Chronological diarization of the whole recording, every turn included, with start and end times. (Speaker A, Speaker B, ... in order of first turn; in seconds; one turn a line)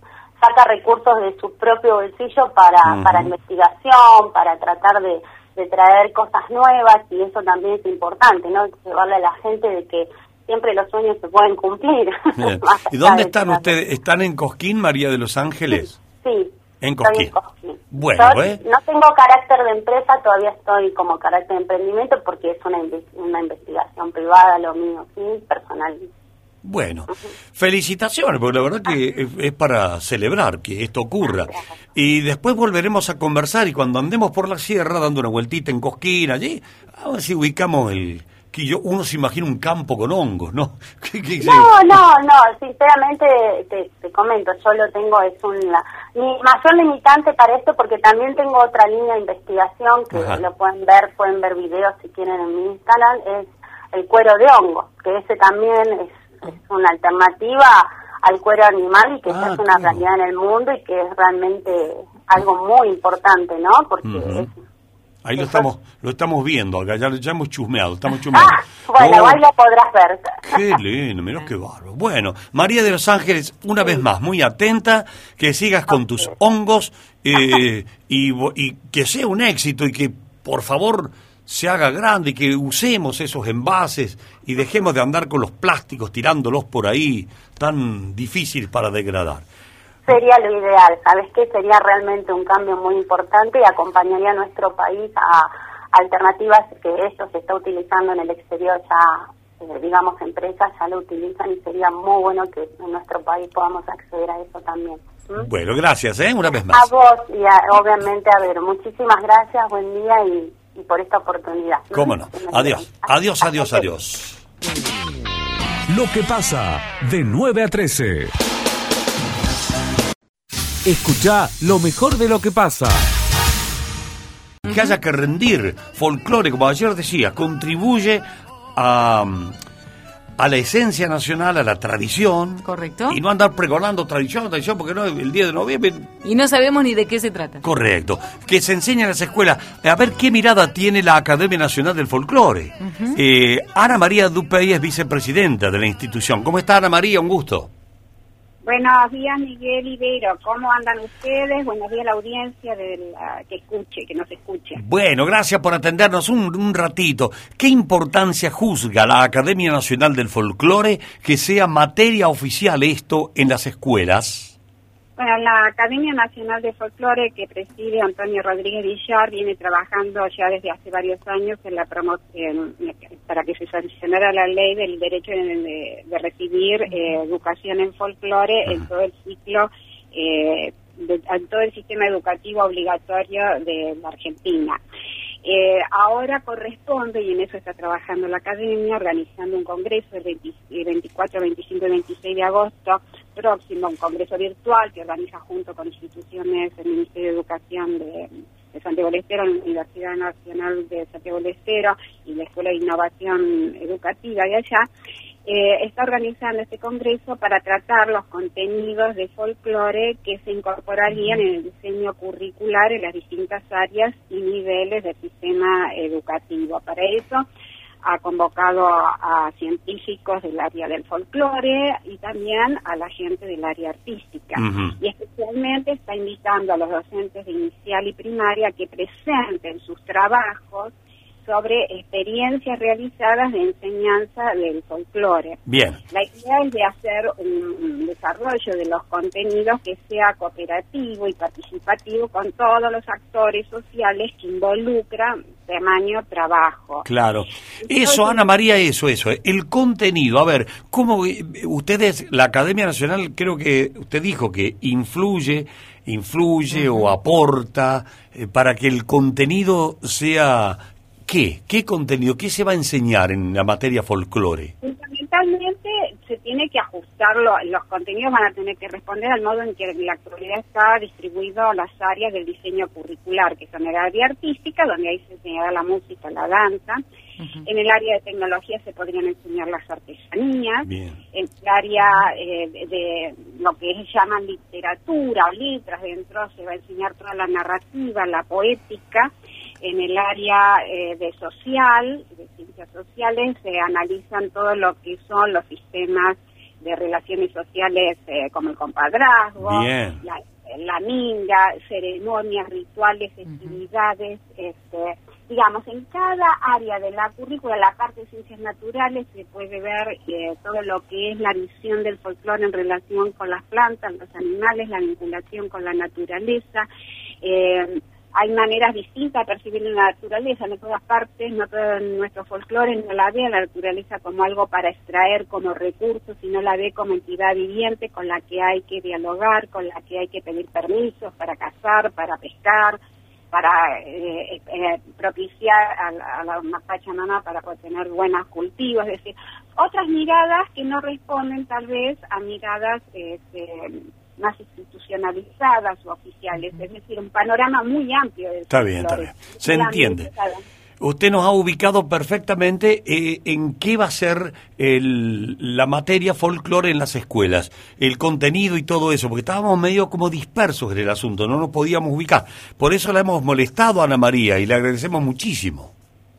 Speaker A: 0.4-13.8
Speaker B: 2.8-3.3
Speaker B: 12.4-15.9
Speaker A: 15.7-26.1
Speaker B: 16.8-17.3
Speaker B: 17.9-18.6
Speaker B: 26.6-42.0
Speaker A: 31.2-31.6
Speaker A: 41.4-64.5
Speaker B: 50.1-50.4
Speaker B: 59.3-60.0
Speaker B: 64.0-64.5
Speaker B: 65.2-69.4
Speaker A: 68.3-70.8
Speaker B: 70.4-89.5
Speaker A: 90.1-105.5
Speaker B: 105.4-106.9
Speaker A: 106.7-113.9
Speaker B: 111.9-114.4
Speaker C: 115.9-118.3
Speaker C: 120.8-123.1
Speaker B: 124.6-129.6
Speaker D: 124.7-124.9
Speaker B: 130.4-136.1
Speaker D: 132.6-133.2
Speaker D: 136.2-137.6
Speaker B: 137.6-147.7
Speaker D: 142.8-143.2
Speaker E: 148.6-154.8
Speaker B: 154.8-164.6
Speaker E: 165.2-184.8
Speaker E: 185.4-204.9
Speaker E: 205.4-217.4
Speaker E: 218.0-247.1
Speaker B: 224.6-224.9
Speaker B: 235.7-236.0
Speaker B: 247.0-264.7
Speaker E: 247.8-248.5
Speaker E: 264.8-277.0
Speaker E: 277.6-316.9
Speaker B: 280.8-281.2
Speaker B: 299.6-300.2
Speaker E: 317.4-333.0
Speaker E: 333.5-350.6
Speaker B: 348.7-350.3
Speaker B: 351.0-365.9